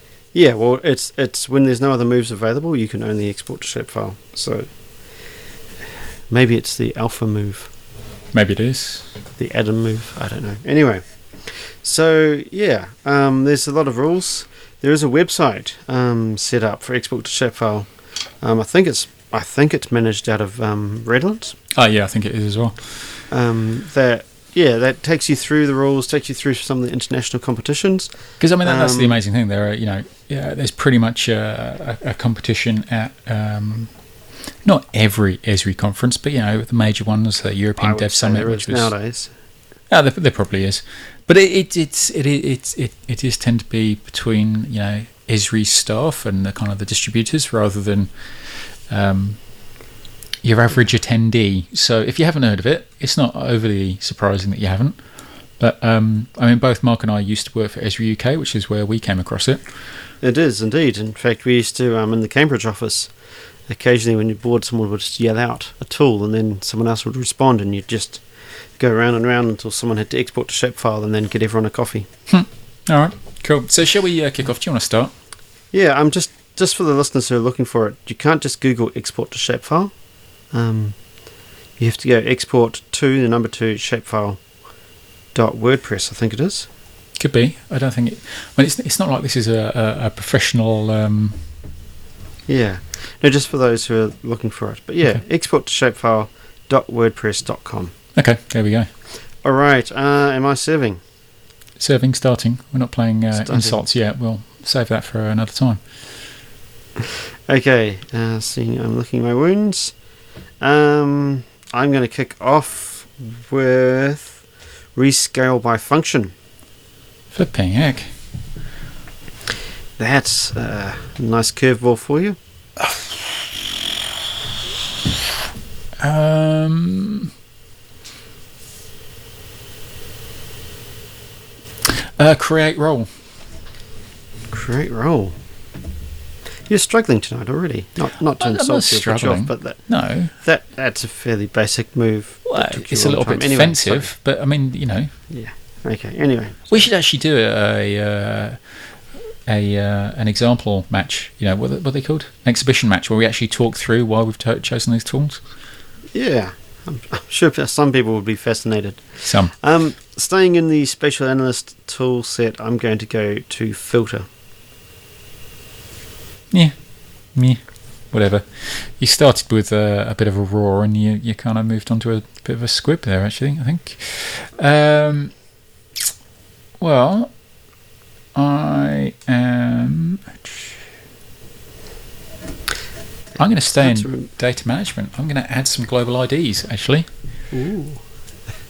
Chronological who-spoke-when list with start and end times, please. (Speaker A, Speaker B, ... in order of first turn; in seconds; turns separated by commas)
Speaker A: 0.3-4.7, Speaker A: 6.3-7.7, Speaker B: 8.3-9.1, Speaker A: 9.4-17.9, Speaker A: 18.4-21.6, Speaker B: 21.7-22.8, Speaker A: 23.3-28.1, Speaker B: 28.4-33.9, Speaker A: 28.6-29.2, Speaker B: 34.6-38.9, Speaker A: 37.8-39.3, Speaker B: 39.9-48.1, Speaker B: 48.9-49.4, Speaker B: 50.4-55.0, Speaker B: 55.6-59.6, Speaker A: 60.2-63.1, Speaker A: 63.7-68.2, Speaker A: 68.8-72.1, Speaker B: 72.3-75.1, Speaker A: 75.7-79.9, Speaker A: 80.5-81.0, Speaker A: 81.8-84.4, Speaker A: 85.3-86.7, Speaker B: 87.2-91.4, Speaker A: 92.5-97.9, Speaker B: 98.1-98.9, Speaker A: 99.4-101.0, Speaker B: 101.8-105.8, Speaker A: 103.3-103.8, Speaker A: 107.0-109.9, Speaker A: 110.6-114.4, Speaker A: 115.0-116.3, Speaker B: 117.3-118.1, Speaker A: 120.0-122.4, Speaker B: 126.0-127.3, Speaker B: 131.8-133.1, Speaker A: 134.5-135.3, Speaker A: 136.7-139.8, Speaker B: 138.4-140.3, Speaker A: 140.4-144.1, Speaker B: 142.5-145.1, Speaker A: 145.3-146.8, Speaker B: 146.7-148.6, Speaker B: 149.4-155.4, Speaker A: 156.1-164.3, Speaker B: 159.2-159.5, Speaker B: 167.3-167.6, Speaker B: 168.1-175.3, Speaker B: 176.8-177.3, Speaker B: 178.3-180.7, Speaker B: 183.4-187.1, Speaker A: 183.8-184.3, Speaker A: 187.5-188.0